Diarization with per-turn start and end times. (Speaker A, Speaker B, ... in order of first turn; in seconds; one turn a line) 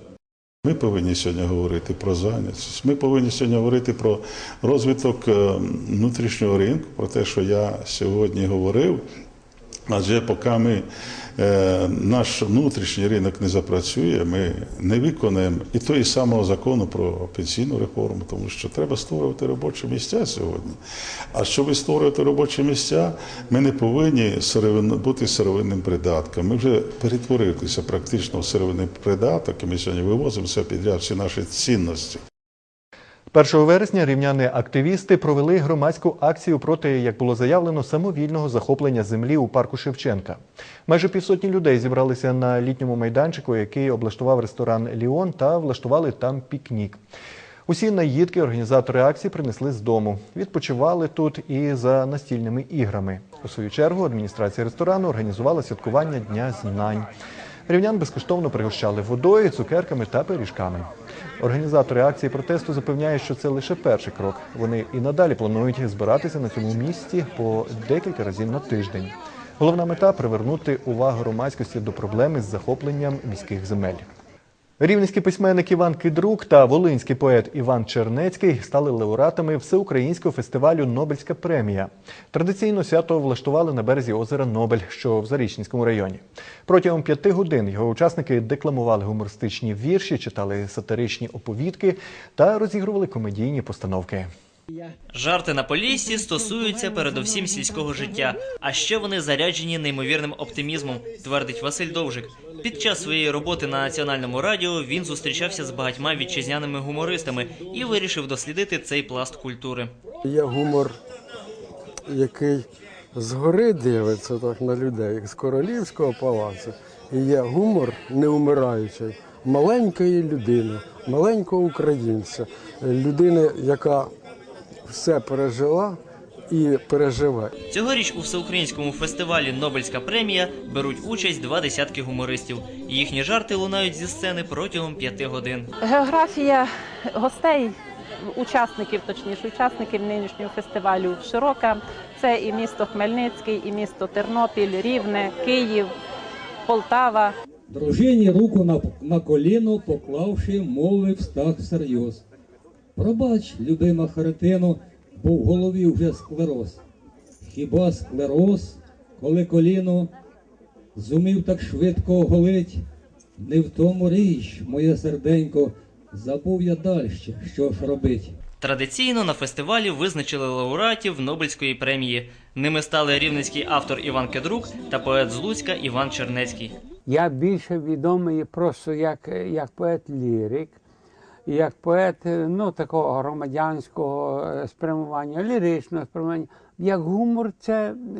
Speaker A: 0.7-9.0
Speaker A: 9.9-10.9
Speaker A: 11.4-20.8
Speaker A: 21.3-32.2
Speaker B: 33.3-47.0
Speaker B: 47.7-57.1
Speaker B: 57.7-74.1
Speaker B: 74.8-94.3
Speaker C: 95.1-109.9
Speaker D: 110.2-111.0
Speaker D: 112.1-124.1
Speaker D: 124.9-126.0
Speaker D: 126.5-127.5
Speaker C: 127.7-135.7
Speaker E: 135.8-145.9
Speaker E: 146.7-147.3
Speaker F: 147.7-152.2
Speaker F: 153.0-156.8
Speaker F: 157.4-160.1
Speaker F: 161.0-162.8
Speaker F: 163.4-168.3
Speaker C: 168.6-176.8
Speaker G: 177.1-178.0
Speaker G: 181.5-182.0
Speaker G: 184.7-187.8